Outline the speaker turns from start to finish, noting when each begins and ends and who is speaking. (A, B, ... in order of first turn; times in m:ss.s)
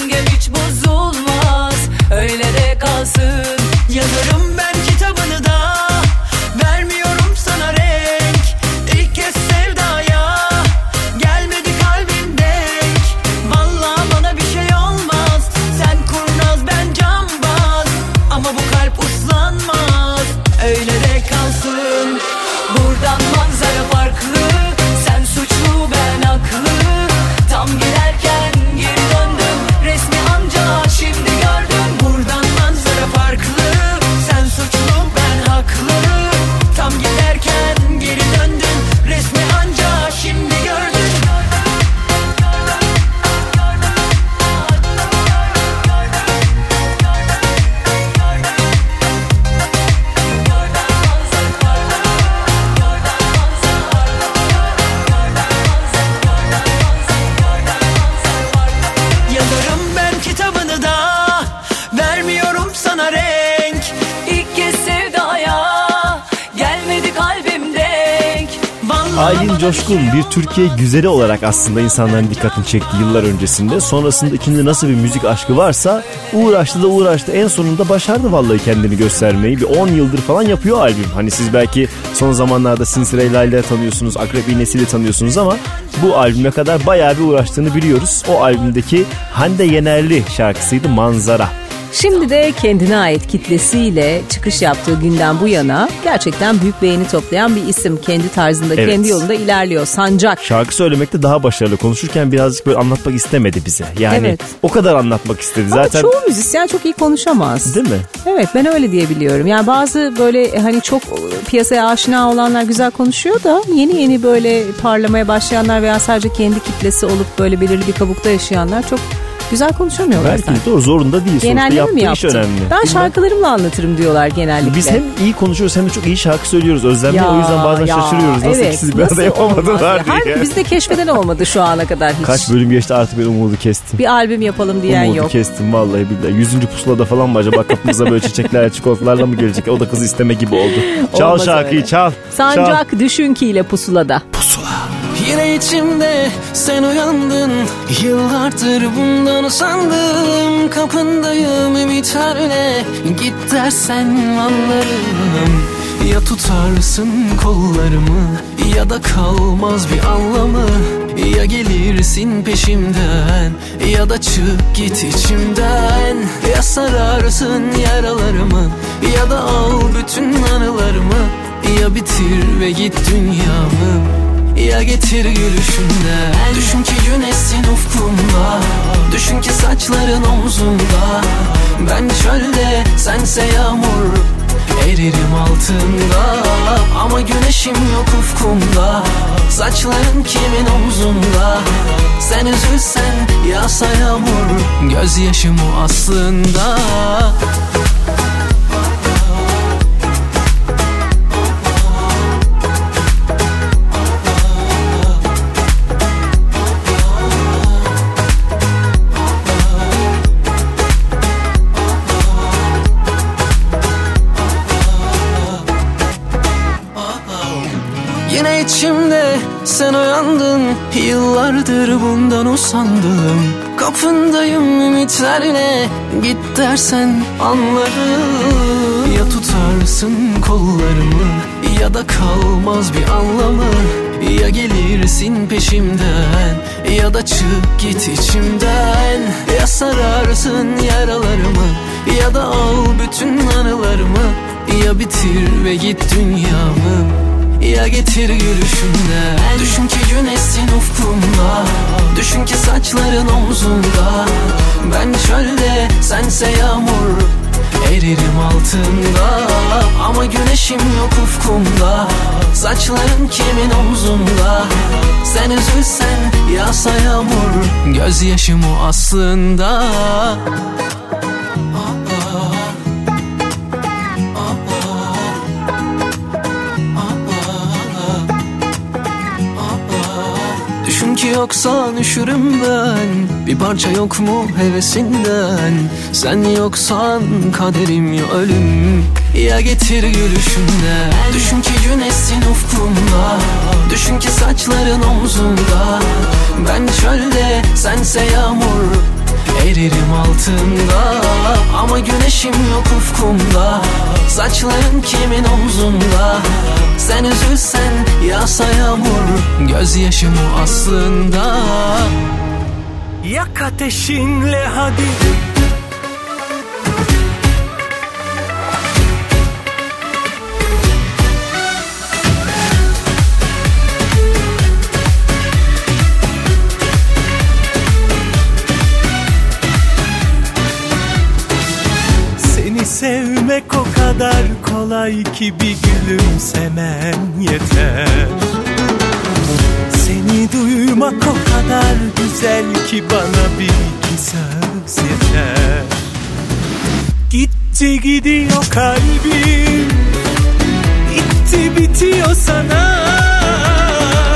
0:59.9-1:01.3 A
1:03.4-1:03.7 A
1:09.1-1:31.5 B
1:31.9-1:40.4 C
1:38.8-1:39.2 B
1:40.4-1:46.1 B
1:44.1-1:44.5 C
1:45.7-2:00.6 C
1:47.6-1:48.1 B
2:00.2-2:03.1 B
2:01.4-2:05.0 C
2:04.6-2:10.5 B
2:07.1-2:12.5 C
2:12.2-2:14.0 B
2:14.0-2:15.3 C
2:14.9-2:22.8 B
2:20.9-2:24.2 C
2:25.2-2:54.0 A
2:54.6-3:04.2 A
3:04.8-3:11.7 A
3:12.2-3:17.2 A
3:38.3-4:07.0 A
4:07.6-4:14.3 A
4:14.8-4:17.3 A
4:17.8-4:24.7 A
4:25.2-4:30.4 A
4:40.9-4:53.4 A
4:54.0-4:56.0 A
4:56.6-4:59.0 A
4:59.6-5:06.4 A
5:07.0-5:11.8 A
5:13.5-5:14.9 D
5:32.7-5:33.0 D
5:41.0-5:41.8 D
5:47.5-5:49.7 D
5:51.3-5:53.3 D